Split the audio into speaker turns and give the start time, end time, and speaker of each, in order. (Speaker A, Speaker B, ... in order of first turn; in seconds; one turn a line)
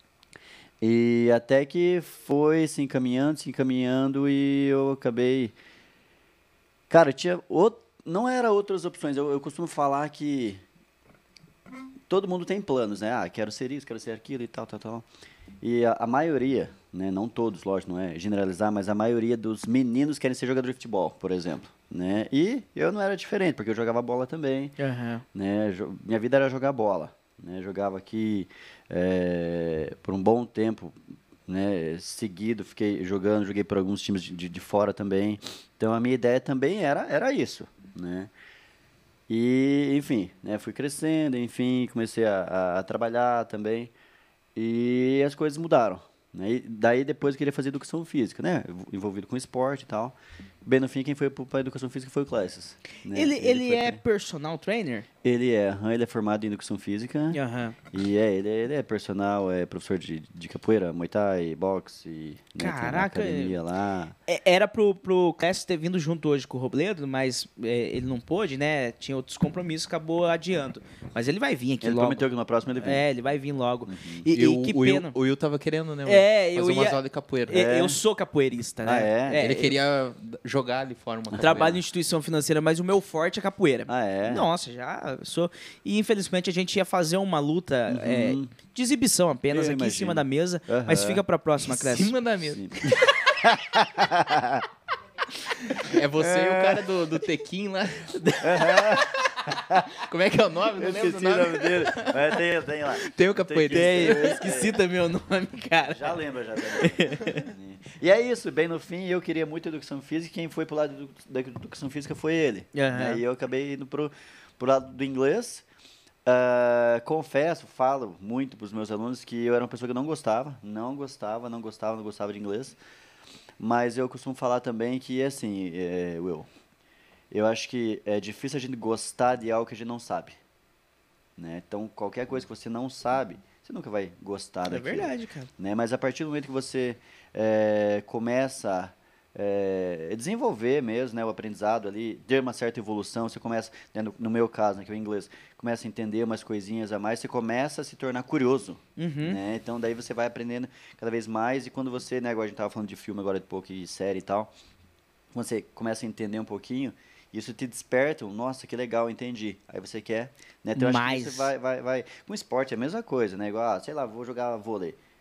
Speaker A: 0.8-5.5
Speaker A: 6.9-10.6
Speaker A: 12.1-15.1
Speaker A: 15.6-24.8
Speaker B: 24.8-25.2
Speaker A: 25.3-38.3
Speaker A: 39.3-43.9
Speaker A: 44.5-54.0
Speaker B: 53.1-55.1
Speaker A: 55.2-57.4
Speaker B: 57.3-57.8
Speaker A: 57.9-64.2
Speaker B: 62.6-63.6
Speaker B: 64.3-72.2
Speaker A: 71.8-73.1
Speaker B: 72.8-75.2
Speaker A: 73.8-74.3
Speaker C: 74.3-77.6
Speaker B: 76.1-79.7
Speaker A: 77.5-78.0
Speaker A: 78.8-79.4
Speaker C: 79.4-81.8
Speaker B: 81.3-92.1
Speaker A: 83.9-84.5
Speaker A: 87.9-88.5
Speaker A: 89.5-91.2
Speaker C: 91.6-92.7
Speaker A: 92.5-94.7
Speaker C: 95.7-98.2
Speaker A: 96.3-96.8
Speaker B: 98.1-99.1
Speaker A: 98.4-99.9
Speaker C: 99.9-102.2
Speaker A: 100.7-104.8
Speaker C: 103.0-104.3
Speaker B: 103.7-107.5
Speaker A: 105.9-115.7
Speaker B: 112.7-113.2
Speaker A: 116.2-122.8
Speaker A: 123.6-126.5
Speaker A: 127.3-130.4
Speaker A: 131.4-154.5
Speaker B: 134.7-135.5
Speaker B: 149.0-149.4
Speaker A: 155.3-165.0
Speaker B: 160.7-161.5